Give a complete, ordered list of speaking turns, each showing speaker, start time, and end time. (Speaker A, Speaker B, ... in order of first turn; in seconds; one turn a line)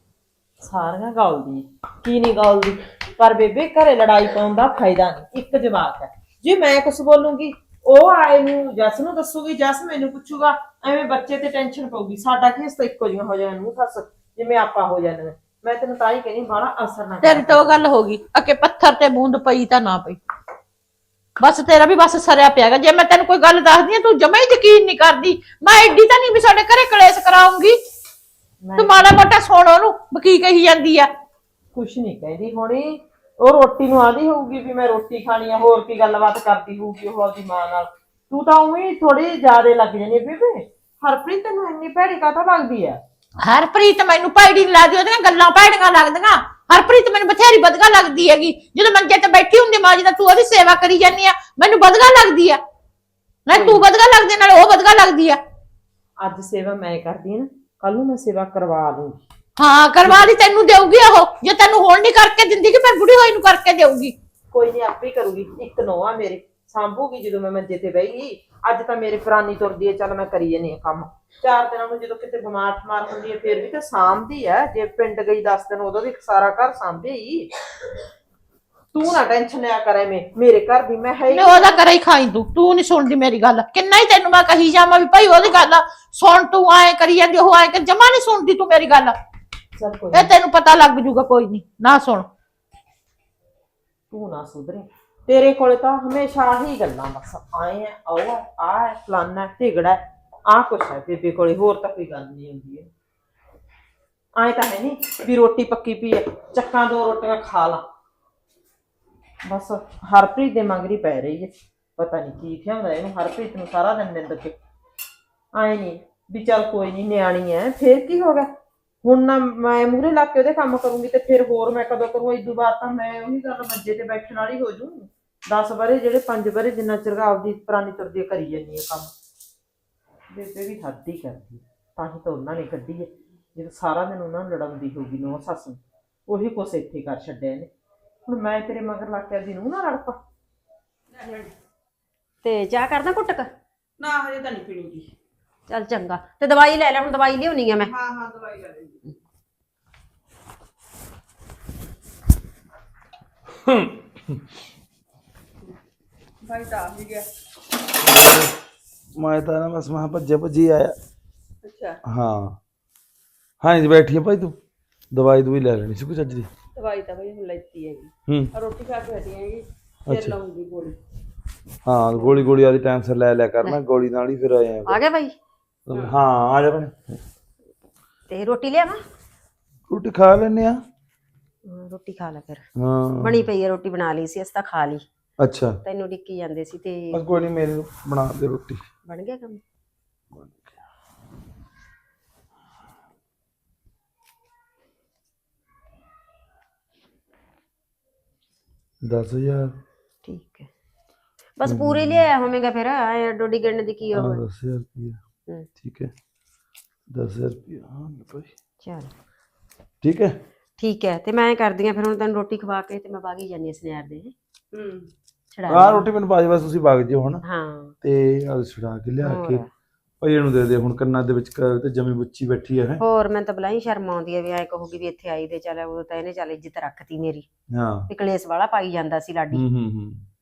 Speaker A: 0.6-17.8
Speaker B: 17.2-20.2
Speaker B: 21.4-27.8
Speaker A: 28.6-29.0
Speaker B: 28.8-31.1
Speaker A: 31.7-43.0
Speaker B: 43.4-52.6
Speaker B: 53.5-55.4
Speaker A: 53.5-53.8
Speaker A: 56.2-59.2
Speaker B: 59.6-64.2
Speaker A: 64.5-77.5
Speaker A: 78.9-81.8
Speaker B: 81.3-89.2
Speaker A: 89.8-90.3
Speaker B: 90.1-92.3
Speaker A: 94.1-102.9
Speaker A: 104.4-107.8
Speaker A: 109.5-114.6
Speaker A: 115.5-118.5
Speaker A: 119.0-129.1
Speaker A: 130.3-137.7
Speaker A: 138.3-140.2
Speaker C: 141.1-141.5
Speaker D: 142.4-143.5
Speaker C: 144.0-145.1
Speaker D: 145.7-147.9
Speaker C: 147.8-149.0
Speaker C: 156.4-157.3
Speaker E: 158.0-158.5
Speaker E: 159.2-161.0
Speaker C: 161.7-162.0
Speaker E: 162.1-162.6
Speaker E: 163.6-164.6
Speaker E: 165.1-166.5
Speaker C: 166.7-171.0
Speaker E: 170.1-170.4
Speaker E: 171.9-175.0
Speaker D: 174.9-175.3
Speaker E: 175.9-177.2
Speaker D: 178.3-179.0
Speaker E: 179.9-180.8
Speaker D: 181.7-182.7
Speaker E: 182.8-183.4
Speaker D: 183.2-185.1
Speaker E: 185.4-185.8
Speaker D: 185.8-187.2
Speaker E: 187.1-188.8
Speaker D: 189.1-189.6
Speaker E: 190.3-190.8
Speaker E: 199.0-199.8
Speaker D: 200.2-200.7
Speaker D: 201.6-204.4
Speaker E: 201.7-202.3
Speaker E: 204.2-205.2
Speaker E: 205.8-206.1
Speaker E: 207.1-208.5
Speaker D: 208.8-209.1
Speaker E: 210.0-210.4
Speaker D: 210.8-214.3
Speaker C: 214.7-215.1
Speaker D: 215.5-216.1
Speaker E: 215.7-217.4
Speaker D: 217.4-217.9
Speaker E: 218.0-219.6
Speaker D: 219.2-219.7
Speaker E: 220.2-223.0
Speaker D: 223.0-227.5
Speaker E: 227.7-228.1
Speaker D: 228.1-229.6
Speaker E: 229.5-230.3